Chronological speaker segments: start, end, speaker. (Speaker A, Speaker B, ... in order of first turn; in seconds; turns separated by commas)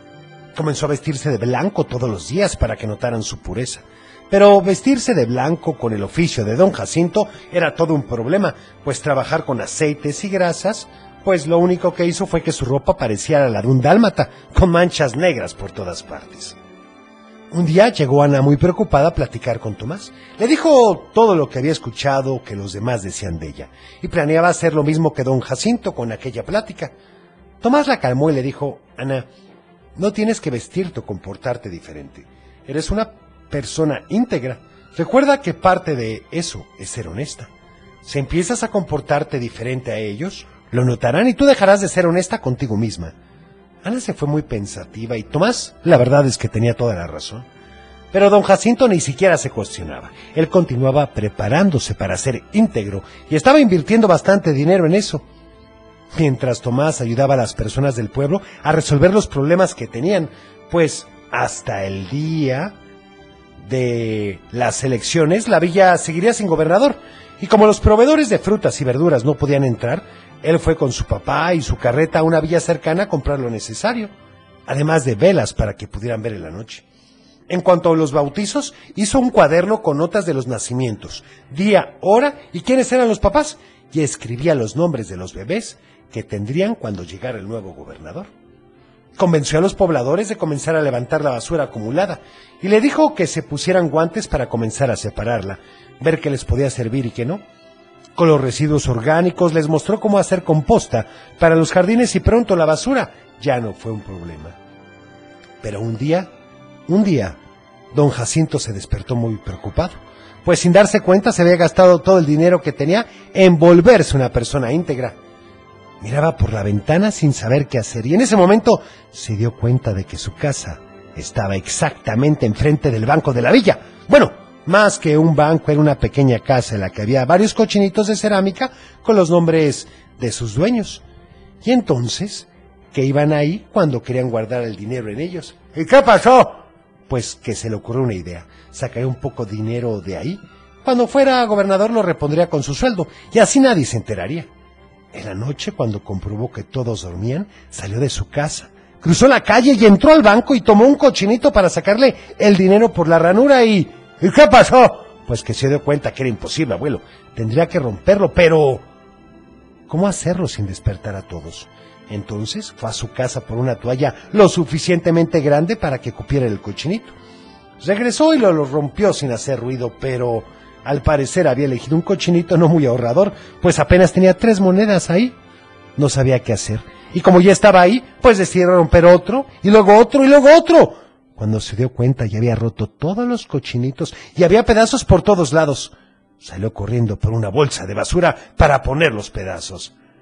Speaker A: 0.5-16.6, Speaker A: 17.5-26.9, Speaker A: 27.6-29.3, Speaker A: 30.0-37.5, Speaker A: 38.0-43.1, Speaker A: 43.8-47.5, Speaker A: 48.1-55.2, Speaker A: 56.1-62.7, Speaker A: 63.6-74.1, Speaker A: 74.7-76.8, Speaker A: 77.5-88.3, Speaker A: 89.2-97.4, Speaker A: 98.2-104.5, Speaker A: 105.6-106.3, Speaker A: 106.9-107.4, Speaker A: 107.9-115.2, Speaker A: 116.0-131.0, Speaker A: 131.6-144.5, Speaker A: 145.1-158.8, Speaker A: 159.9-167.1, Speaker A: 167.8-175.3, Speaker A: 176.0-189.9